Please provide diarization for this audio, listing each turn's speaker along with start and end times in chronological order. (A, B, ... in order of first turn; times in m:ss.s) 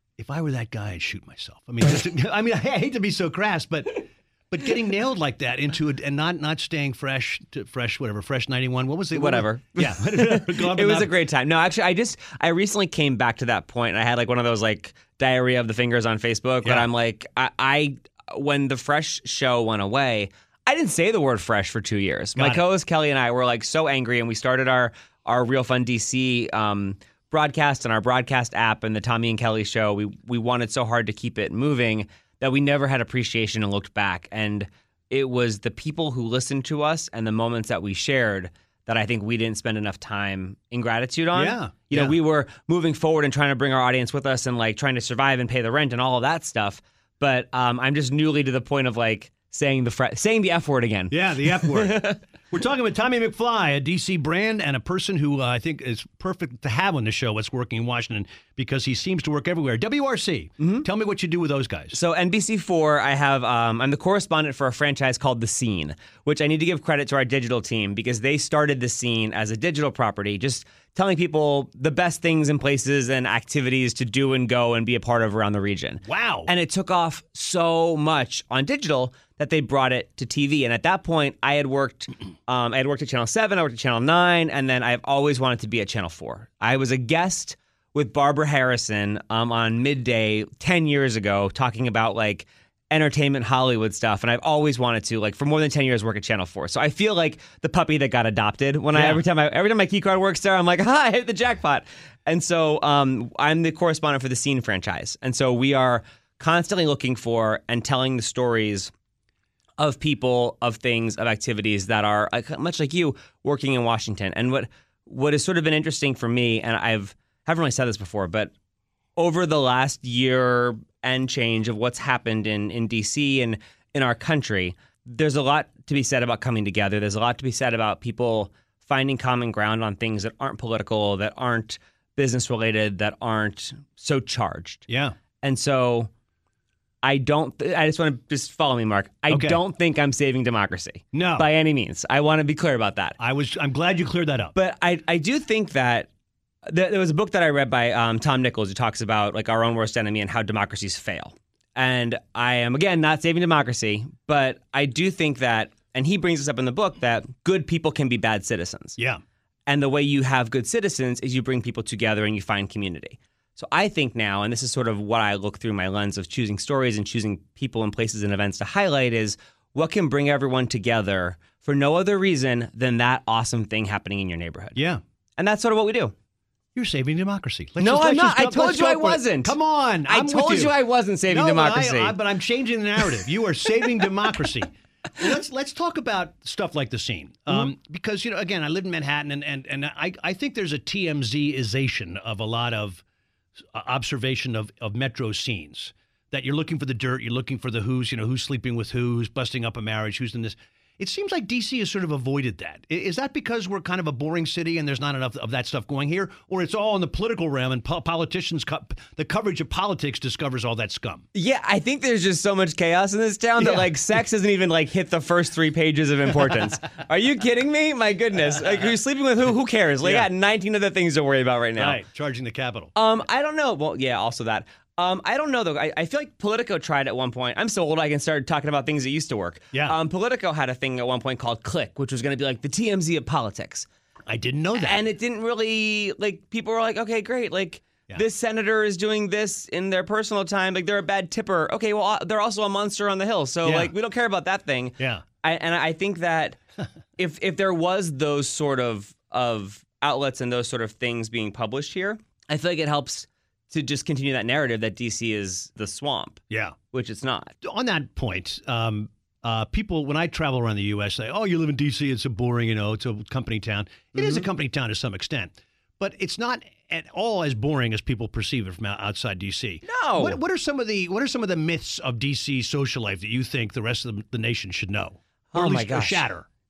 0:00.2-0:11.1 A
0:09.1-0:52.2 B
0:22.4-0:22.6 A
0:41.3-0:42.2 A
0:51.1-1:02.0 A
1:00.6-1:00.8 B
1:01.9-1:48.9 B
1:16.0-1:16.5 A
1:38.9-1:39.2 A
1:49.8-1:58.5 B
1:59.2-2:14.8 B
2:14.9-2:15.1 A
2:15.4-2:16.1 B
2:17.0-2:23.2 B
2:19.3-2:19.6 A
2:21.1-2:21.5 A
2:23.2-2:24.6 A
2:24.5-2:26.1 B
2:26.6-2:39.0 B
2:39.7-2:54.8 B
2:54.7-2:55.0 A
2:55.4-2:56.1 B
2:56.7-3:00.8 A
2:57.8-2:59.5 B
3:00.1-3:02.2 B
3:01.3-3:13.0 A
3:13.6-3:31.2 A
3:31.3-3:42.0 B
3:33.6-3:33.9 A
3:40.0-3:40.3 A
3:41.8-3:42.9 A
3:42.9-3:53.9 B
3:49.7-3:50.0 A
3:54.3-3:55.0 A
3:54.8-4:06.6 B
4:03.6-4:03.9 A
4:05.0-4:05.2 A
4:07.2-4:17.5 B
4:16.5-4:16.8 A
4:17.6-4:36.4 A
4:24.2-4:24.4 B
4:29.8-4:30.4 B
4:35.5-4:36.2 B